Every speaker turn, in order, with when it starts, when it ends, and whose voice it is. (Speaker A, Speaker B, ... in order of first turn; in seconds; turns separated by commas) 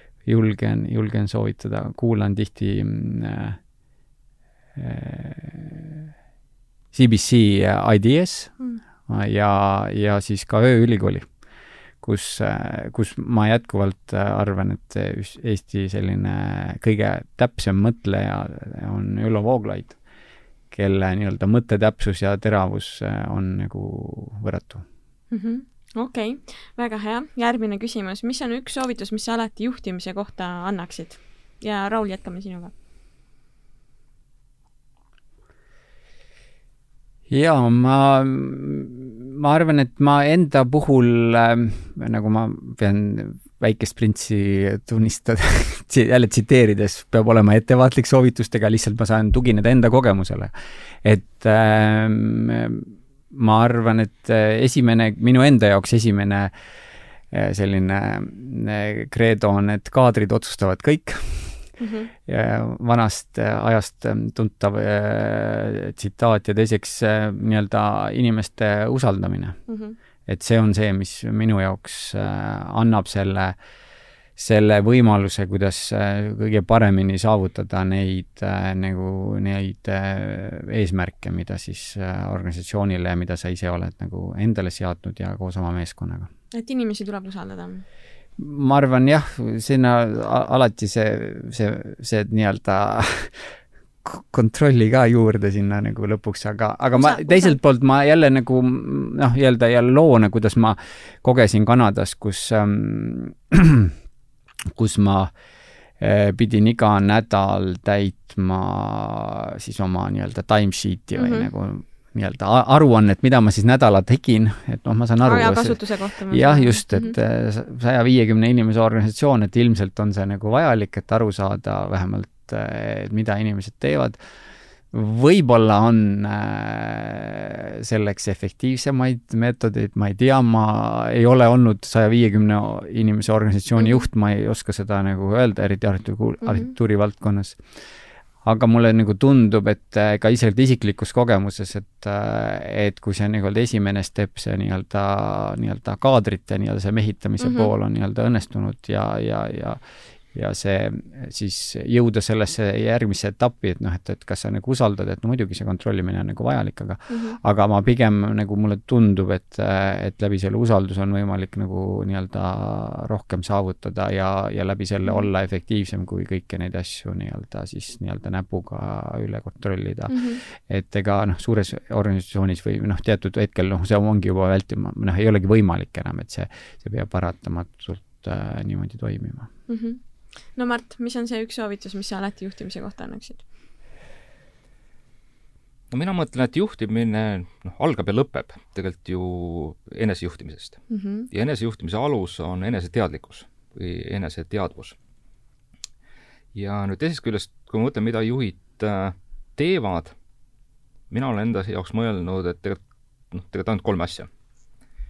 Speaker A: 0.2-3.6, Speaker A: 4.8-6.1, Speaker A: 6.9-8.6, Speaker A: 9.1-11.3, Speaker A: 12.0-20.0, Speaker A: 20.7-24.9, Speaker B: 25.3-32.7, Speaker A: 37.3-56.5, Speaker A: 57.3-61.6, Speaker B: 61.8-62.1, Speaker A: 62.3-69.6, Speaker B: 69.7-70.0, Speaker A: 70.3-73.6, Speaker A: 74.4-86.3, Speaker B: 86.5-87.8, Speaker A: 88.4-103.9, Speaker B: 96.9-97.6, Speaker A: 104.7-105.3, Speaker A: 106.0-124.2, Speaker B: 111.2-111.5, Speaker B: 115.2-117.2, Speaker A: 124.9-137.6, Speaker B: 136.4-136.7, Speaker A: 138.4-149.8, Speaker B: 147.4-147.7, Speaker A: 150.3-179.5, Speaker B: 157.1-157.4, Speaker B: 170.1-170.4, Speaker B: 179.7-180.0, Speaker B: 180.6-183.4, Speaker C: 185.9-195.0, Speaker B: 190.9-191.3, Speaker C: 196.5-200.1, Speaker C: 201.1-202.8, Speaker C: 203.3-204.3